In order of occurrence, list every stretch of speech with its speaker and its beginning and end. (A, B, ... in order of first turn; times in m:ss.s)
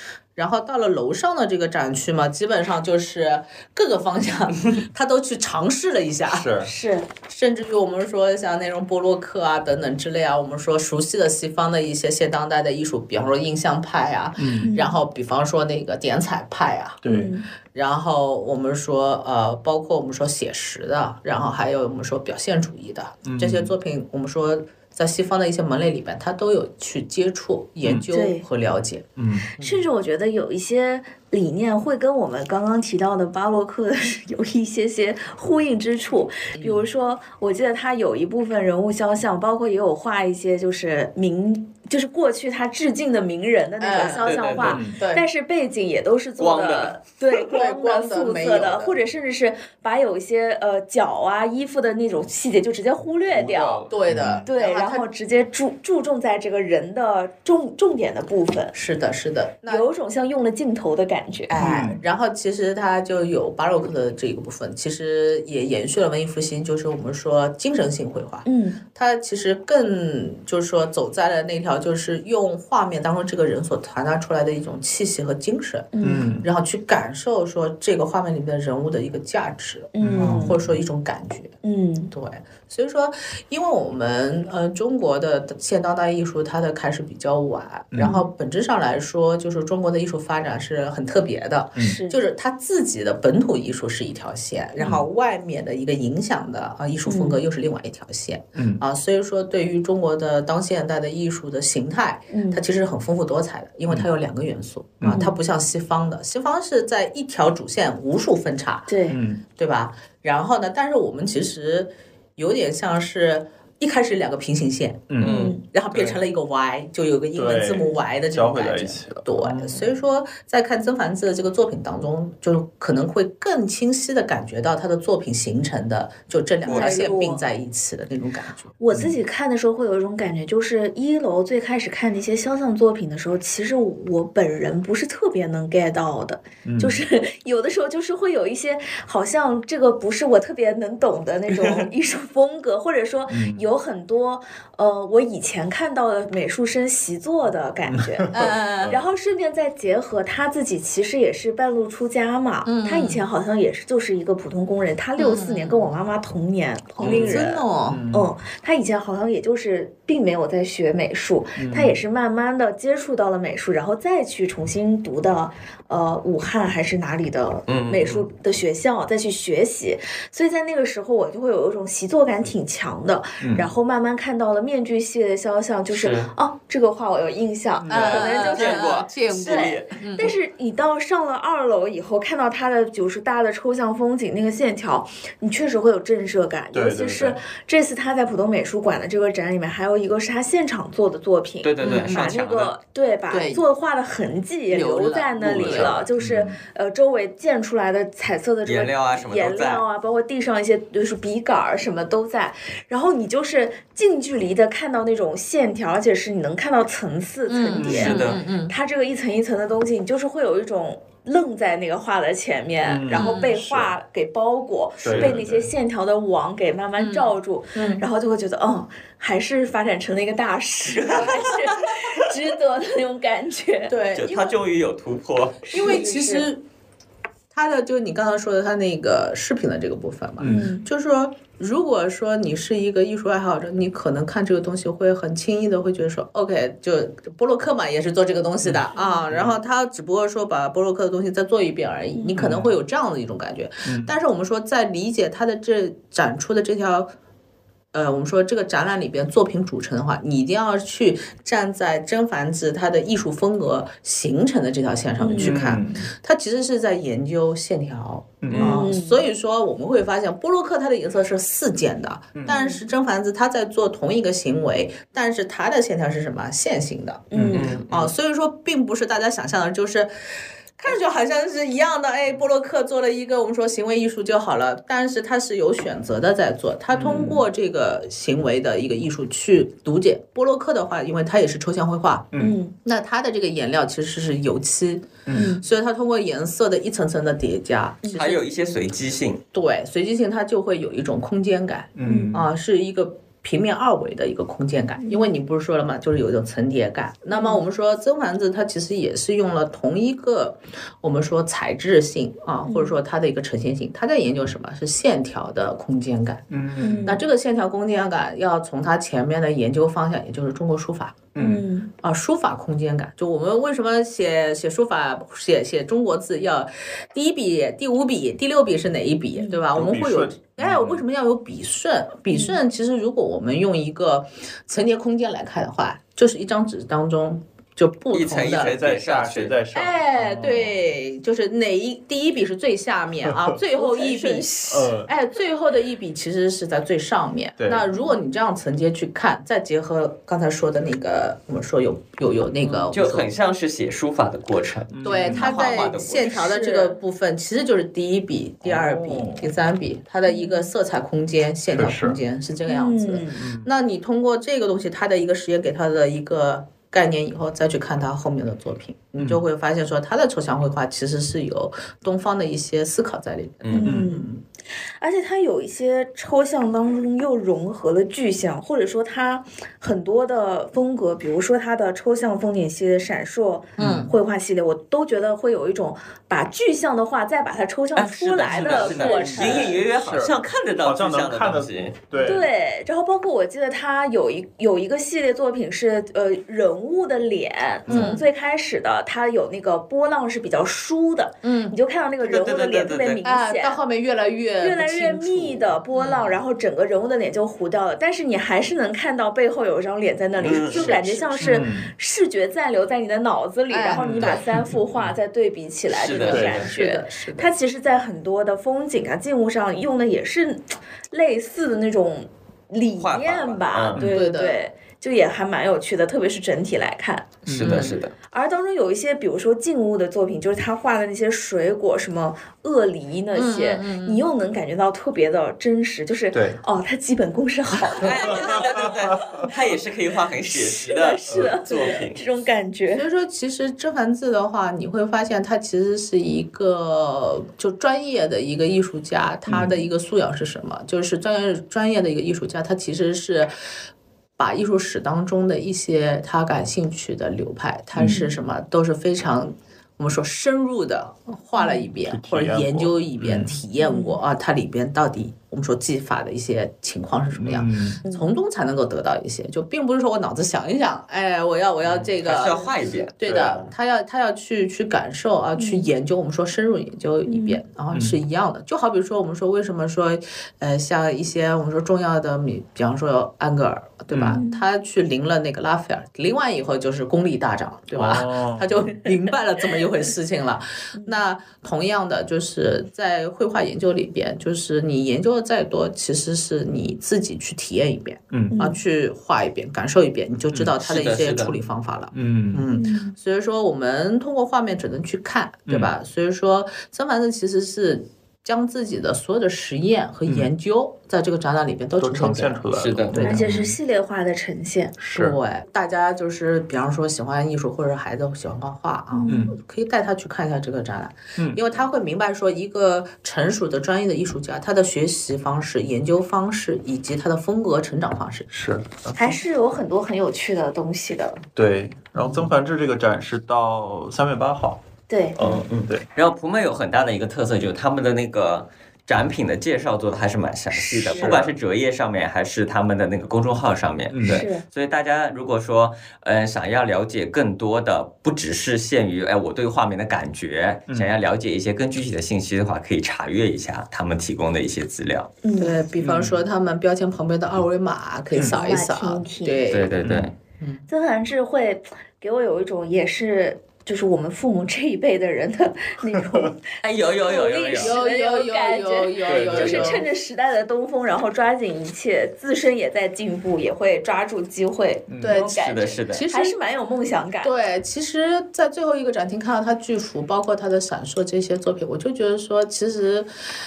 0:00.4-0:06.5 A
0:06.3-0:06.7 B
0:06.6-0:07.1 C
0:07.3-0:17.0 A
0:14.4-0:14.7 B
0:14.6-0:15.0 C
0:17.0-0:17.3 B
0:17.1-0:17.5 C
0:17.7-0:29.1 A
0:23.2-0:23.7 B
0:28.1-0:28.4 C
0:29.2-0:29.5 B
0:29.6-0:29.8 A
0:29.6-0:53.9 C
0:36.6-0:36.8 A
0:43.8-0:44.4 A
0:44.2-0:44.8 D
0:44.6-0:45.0 B
0:44.9-0:45.3 A
0:46.4-0:47.0 D
0:47.3-0:49.0 A
0:53.3-0:54.5 B
0:53.9-0:55.1 A
0:54.4-0:58.7 C
0:58.7-0:59.9 A
0:59.7-1:01.8 C
1:01.6-1:15.9 A
1:01.6-1:02.0 B
1:08.4-1:08.8 C
1:15.9-1:16.3 C
1:16.0-1:16.5 B
1:16.4-1:21.6 A
1:19.9-1:20.6 C
1:20.0-1:20.8 B
1:21.6-1:22.1 C
1:22.1-1:48.9 A
1:27.9-1:28.2 B
1:28.0-1:28.3 C
1:31.8-1:32.2 C
1:34.8-1:35.0 B
1:37.1-1:37.4 C
1:38.6-1:38.8 B
1:42.3-1:42.6 C
1:45.0-1:45.3 B
1:45.1-1:45.4 C
1:48.9-1:49.2 C
1:49.1-1:49.4 B
1:49.6-1:55.2 A
1:55.1-1:55.5 B
1:55.2-1:55.6 D
1:55.2-1:55.6 C
1:55.7-2:08.7 A
1:57.4-1:59.9 B
2:06.6-2:07.1 D
2:06.7-2:07.4 C
2:08.8-2:28.3 C
2:08.9-2:09.2 B
2:16.6-2:17.0 B
2:21.5-2:21.8 D
2:23.3-2:23.6 B
2:27.9-2:29.0 B
2:28.3-2:28.9 A
2:28.9-3:43.9 C
2:32.6-2:33.2 A
2:35.2-2:35.9 A
2:37.0-2:38.0 A
2:37.0-2:38.3 B
2:41.6-2:42.0 B
2:47.7-2:48.2 D
2:53.4-2:53.7 B
2:55.9-2:56.3 D
2:57.8-2:58.2 B
2:57.9-3:00.3 A
2:57.9-2:59.9 D
3:06.7-3:07.4 B
3:11.6-3:12.8 D
3:11.8-3:12.2 A
3:13.3-3:13.6 A
3:14.7-3:16.0 A
3:15.5-3:16.6 B
3:18.6-3:19.8 D
3:27.5-3:28.7 A
3:27.8-3:28.2 B
3:27.8-3:28.4 D
3:32.8-3:34.0 B
3:33.1-3:33.5 A
3:35.0-3:35.7 B
3:35.1-3:35.4 D
3:37.0-3:38.0 A
3:43.9-3:44.6 A
3:44.2-3:45.7 D
3:45.7-3:46.5 C
3:45.7-3:46.6 A
3:47.5-4:07.1 A
3:50.4-3:50.7 B
3:50.5-3:50.9 C
3:58.6-3:59.6 B
3:59.0-3:59.2 C
4:02.2-4:02.4 C
4:02.4-4:02.8 B
4:03.8-4:04.2 B
4:07.9-4:27.3 A
4:15.2-4:15.6 C
4:15.4-4:16.1 B
4:18.4-4:18.8 B
4:18.5-4:18.8 D
4:18.6-4:19.2 C
4:22.5-4:22.8 C
4:27.3-4:27.8 C
4:27.3-4:28.0 B
4:27.5-4:27.9 D
4:27.8-4:30.1 A
4:30.8-4:42.3 A
4:36.9-4:37.4 B
4:42.3-4:42.6 B
4:42.4-4:42.8 C
4:42.8-4:48.4 A
4:45.3-4:45.6 B
4:45.3-4:45.6 C
4:48.0-4:48.4 C
4:48.1-4:49.4 D
4:49.5-5:06.5 A
4:52.0-4:52.5 B
4:52.0-4:52.4 C
4:57.3-4:57.6 C
5:02.7-5:03.0 C
5:06.5-5:07.2 B
5:06.8-5:07.2 C
5:07.0-5:11.3 A
5:11.4-5:11.7 B
5:11.4-5:11.9 C
5:12.0-5:28.8 A
5:19.4-5:19.6 C
5:19.7-5:21.0 B
5:22.3-5:22.6 C
5:28.1-5:29.6 D
5:28.7-5:30.8 B
5:29.7-5:43.3 A
5:33.7-5:34.9 C
5:34.7-5:35.1 B
5:37.6-5:37.8 B
5:42.9-5:46.6 D
5:44.9-5:45.5 B
5:45.0-6:04.4 A
5:45.5-5:45.8 C
5:46.4-5:47.0 C
5:48.6-5:49.5 B
5:50.3-5:50.7 C
5:51.7-5:52.2 B
5:52.7-5:53.4 C
5:53.4-5:53.7 B
5:59.2-5:59.4 B
6:03.6-6:04.0 D
6:03.7-6:04.3 C
6:03.8-6:04.2 B
6:05.0-6:19.8 C
6:13.8-6:14.1 B
6:13.8-6:14.1 A
6:18.0-6:22.0 D
6:18.5-6:22.5 B
6:18.9-6:19.8 A
6:22.2-6:33.8 C
6:27.9-6:28.2 B
6:27.9-6:28.2 A
6:31.4-6:31.8 A
6:32.2-6:33.2 D
6:33.2-6:36.4 A
6:34.6-6:57.4 C
6:40.4-6:41.2 D
6:40.7-6:41.5 A
6:41.4-6:41.9 B
6:43.7-6:44.6 A
6:43.9-6:45.2 B
6:45.9-6:46.7 D
6:46.3-6:46.7 B
6:46.3-6:47.5 A
6:53.0-6:54.0 D
6:54.0-6:54.2 B
6:54.1-6:54.6 A
6:57.5-6:57.9 B
6:57.5-6:58.1 D
6:57.6-6:58.0 A
6:58.3-7:09.6 C
7:03.3-7:04.3 A
7:06.3-7:06.6 B
7:08.0-7:12.2 D
7:08.0-7:08.5 B
7:10.5-7:13.1 C
7:11.3-7:11.6 B
7:12.9-7:23.5 A
7:19.5-7:19.7 B
7:24.4-8:23.5 A
7:28.0-7:28.3 C
7:31.6-7:31.9 C
7:32.0-7:33.6 B
7:33.8-7:34.2 C
7:37.4-7:38.0 B
7:38.0-7:38.3 C
7:41.8-7:42.1 B
7:42.2-7:43.2 D
7:43.2-7:43.7 B
7:45.6-7:45.9 C
7:47.3-7:47.6 C
7:47.9-7:48.2 B
7:54.1-7:54.4 B
7:54.3-7:54.6 C
7:57.9-7:58.8 B
8:08.3-8:08.6 B
8:08.5-8:08.8 C
8:10.8-8:11.6 D
8:12.1-8:12.7 B
8:12.8-8:13.2 C
8:15.7-8:15.9 B
8:22.0-8:23.8 B
8:22.8-8:23.2 D
8:23.2-8:25.0 C
8:25.0-8:25.4 B
8:25.2-8:38.5 A
8:29.1-8:29.5 C
8:29.3-8:29.6 B
8:31.4-8:31.6 B
8:38.5-8:39.4 B
8:39.2-8:41.4 C
8:41.6-8:44.8 B
8:45.1-8:45.4 C
8:45.3-8:46.1 B
8:45.5-9:05.3 D
8:51.0-8:51.4 C
8:51.1-8:51.6 B
8:54.1-8:54.4 B
8:54.3-8:54.6 C
9:05.4-9:05.8 C
9:05.6-9:09.9 A
9:06.0-9:06.4 B
9:08.4-9:09.6 C
9:09.7-9:10.3 D
9:10.0-9:10.3 B
9:10.6-9:10.9 A
9:10.9-9:27.5 C
9:16.0-9:16.5 B
9:16.8-9:18.0 D
9:17.7-9:20.0 A
9:19.3-9:20.0 B
9:25.1-9:25.4 B
9:25.2-9:26.6 A
9:25.6-9:26.2 D
9:27.4-9:33.3 A